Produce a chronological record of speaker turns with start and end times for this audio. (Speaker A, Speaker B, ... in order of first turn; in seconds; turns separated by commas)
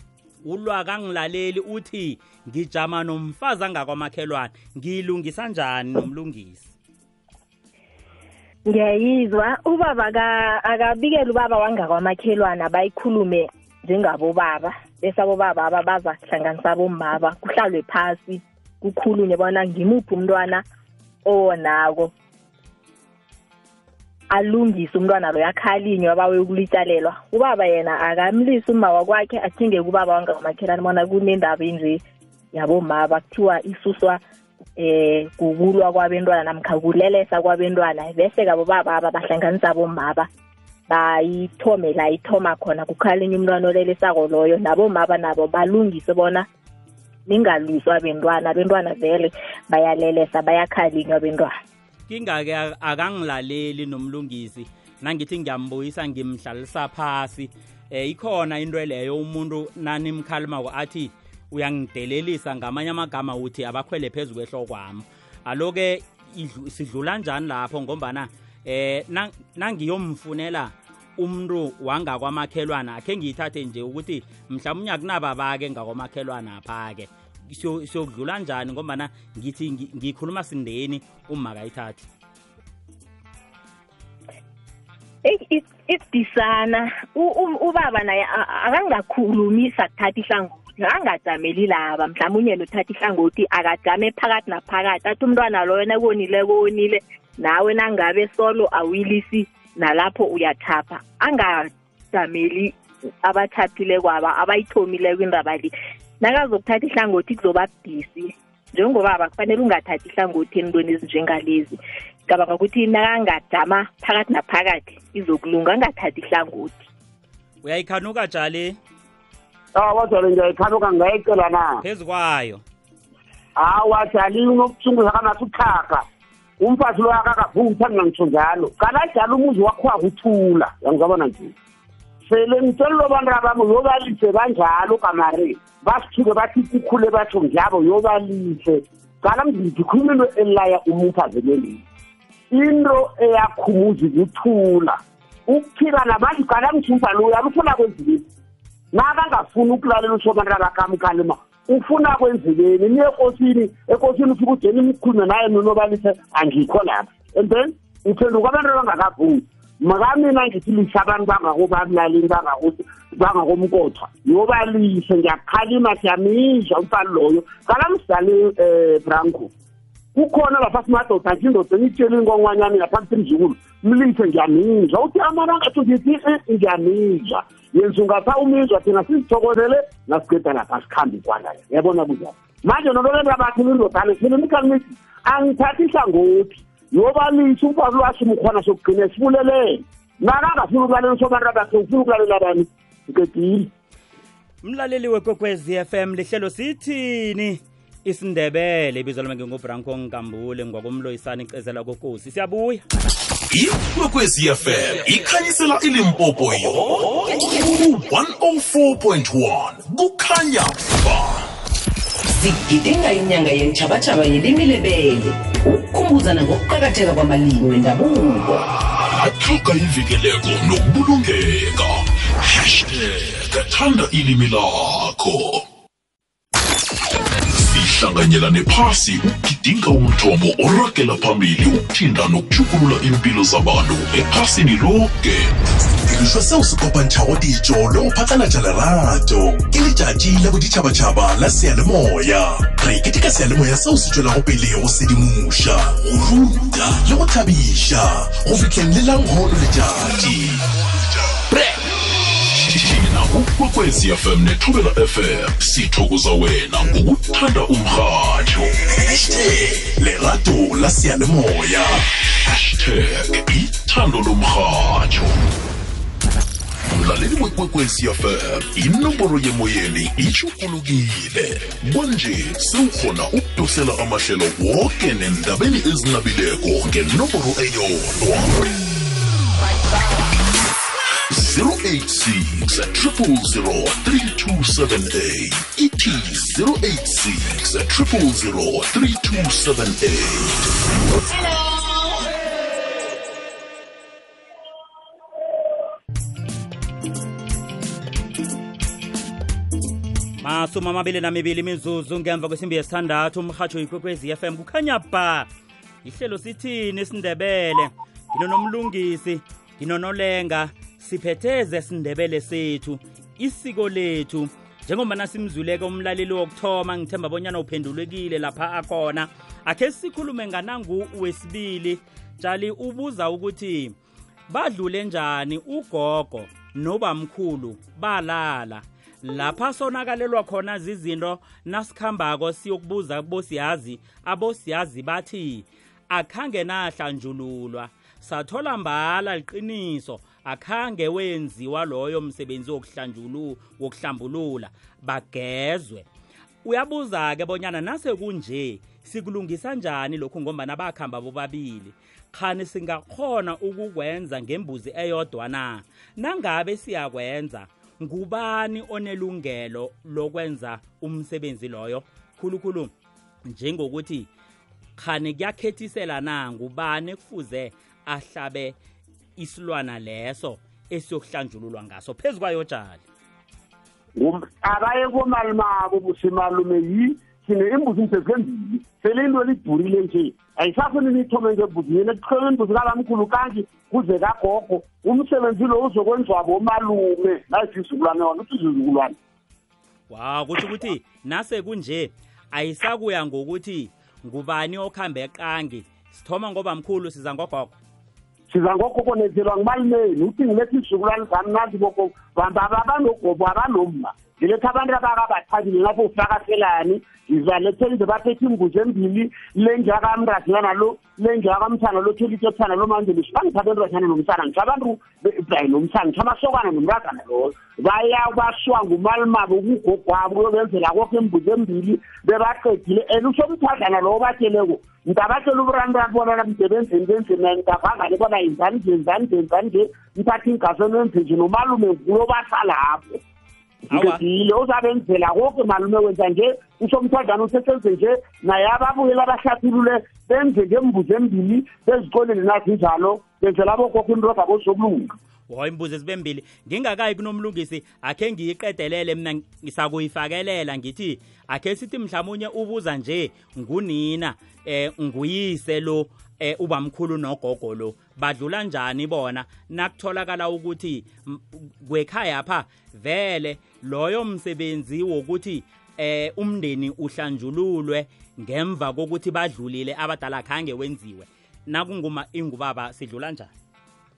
Speaker A: 0.4-6.7, Speaker B: 8.7-20.6, Speaker B: 21.2-22.1, Speaker B: 24.3-32.0, Speaker B: 32.5-34.2, Speaker B: 34.8-40.3, Speaker B: 40.9-46.5, Speaker B: 47.3-51.6, Speaker A: 52.1-82.1, Speaker B: 85.2-116.9, Speaker A: 117.6-118.8, Speaker C: 119.8-121.8, Speaker A: 121.8-122.6, Speaker C: 123.6-126.0, Speaker C: 126.6-131.5, Speaker C: 132.2-141.8, Speaker C: 142.5-148.2, Speaker C: 148.9-169.5, Speaker C: 170.2-193.7, Speaker A: 194.6-202.8, Speaker D: 203.5-211.5, Speaker E: 212.3-218.7, Speaker D: 218.8-225.7, Speaker D: 227.5-235.5, Speaker F: 236.1-250.6, Speaker D: 252.5-258.8, Speaker F: 258.9-262.1, Speaker D: 262.3-265.4, Speaker D: 266.9-278.8, Speaker D: 281.3-290.8, Speaker A: 300.4-305.5, Speaker A: 306.0-323.9, Speaker A: 324.5-346.1, Speaker A: 346.6-362.9, Speaker A: 363.5-364.3, Speaker A: 365.0-368.8, Speaker A: 369.4-373.0, Speaker C: 374.2-389.2, Speaker A: 390.1-397.8, Speaker C: 398.5-433.2, Speaker A: 433.9-434.2, Speaker C: 433.9-445.1, Speaker A: 445.5-473.5